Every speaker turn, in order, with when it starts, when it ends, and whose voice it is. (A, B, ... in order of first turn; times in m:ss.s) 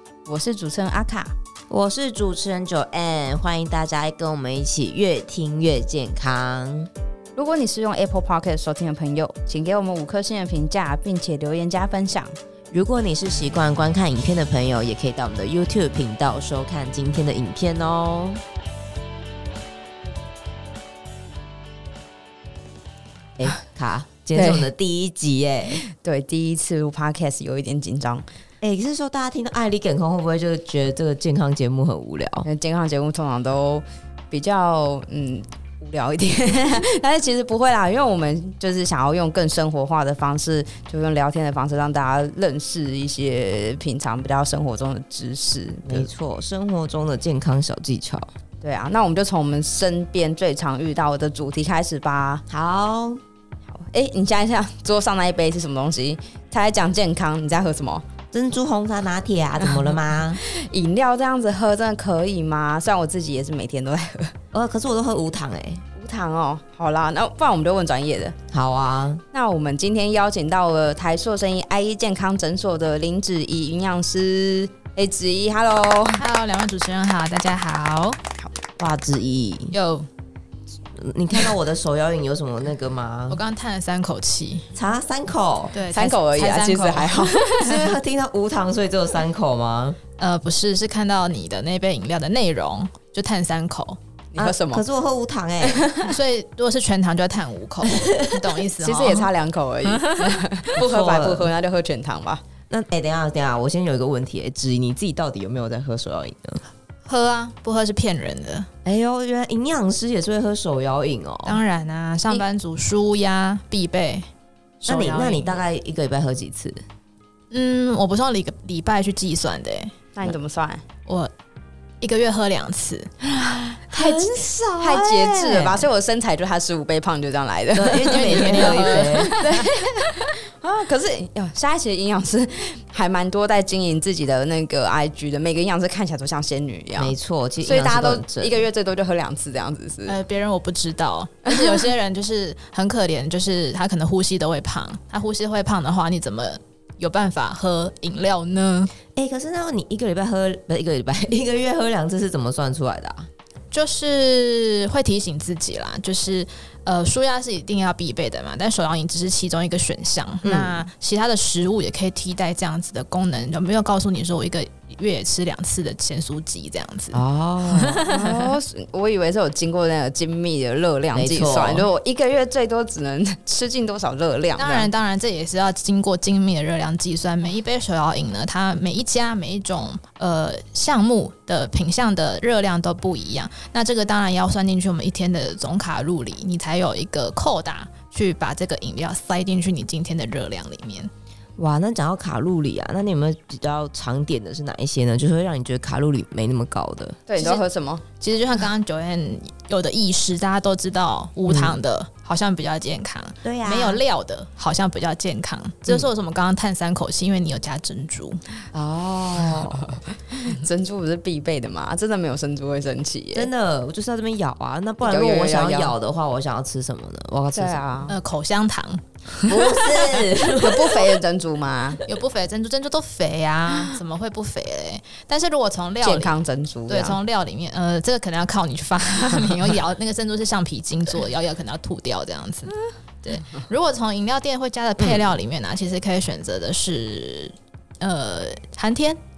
0:00.2-0:01.3 A
0:01.7-0:06.9 B
0:07.4-0:12.4 A
0:12.7-0:18.4 B
0:23.4-0:25.8 B
0:24.3-0:24.7 A
0:25.8-0:28.2 A
0:28.6-0:32.5 B
0:32.4-0:46.1 A
0:45.9-0:48.3 B
0:48.6-0:52.4 A
0:52.5-0:53.2 B
0:53.7-0:58.0 A
0:58.3-1:00.4 B
0:59.6-1:04.3 A
1:04.5-1:05.8 B
1:05.9-1:08.4 A
1:08.5-1:09.2 B
1:09.3-1:16.2 A
1:16.2-1:18.2 C
1:18.8-1:19.8 B
1:19.7-1:20.1 C
1:20.9-1:23.4 B
1:23.3-1:24.7 C
1:24.7-1:25.8 B
1:25.7-1:27.9 C
1:25.9-1:27.5 A
1:27.5-1:30.0 B
1:30.2-1:34.0 C
1:34.3-1:34.8 A
1:34.4-1:35.9 B
1:35.6-1:36.1 A
1:36.0-1:39.3 C
1:37.8-1:38.5 B
1:38.8-1:42.4 A
1:39.9-1:40.3 C
1:40.7-1:41.5 B
1:42.7-1:46.6 B
1:47.0-1:48.7 C
1:48.8-1:51.6 B
1:51.4-1:54.3 C
1:54.8-1:55.6 C
1:54.8-1:56.8 B
1:57.5-1:59.9 C
2:00.1-2:00.8 A
2:02.0-2:03.1 C
2:03.2-2:20.2 A
2:03.9-2:05.9 B
2:07.7-2:09.3 B
2:08.0-2:09.5 C
2:17.0-2:18.6 B
2:20.1-2:28.9 C
2:21.4-2:21.8 A
2:29.2-2:33.3 B
2:33.7-2:48.5 C
2:40.4-2:40.9 B
2:47.1-2:48.1 B
2:48.1-2:54.9 A
2:51.1-2:51.9 B
2:54.6-3:11.1 C
3:11.6-3:17.2 B
3:17.3-3:18.0 A
3:17.4-3:17.6 C
3:18.2-3:28.4 C
3:21.5-3:21.8 B
3:23.4-3:24.0 B
3:28.7-3:30.0 B
3:29.4-3:33.5 A
3:33.3-3:38.1 B
3:35.0-3:35.9 A
3:37.5-3:38.1 A
3:38.1-3:40.3 C
3:39.4-3:41.1 B
3:40.5-3:42.0 A
3:42.1-3:46.3 C
3:46.0-3:47.2 A
3:46.9-3:59.2 C
3:55.0-3:55.2 B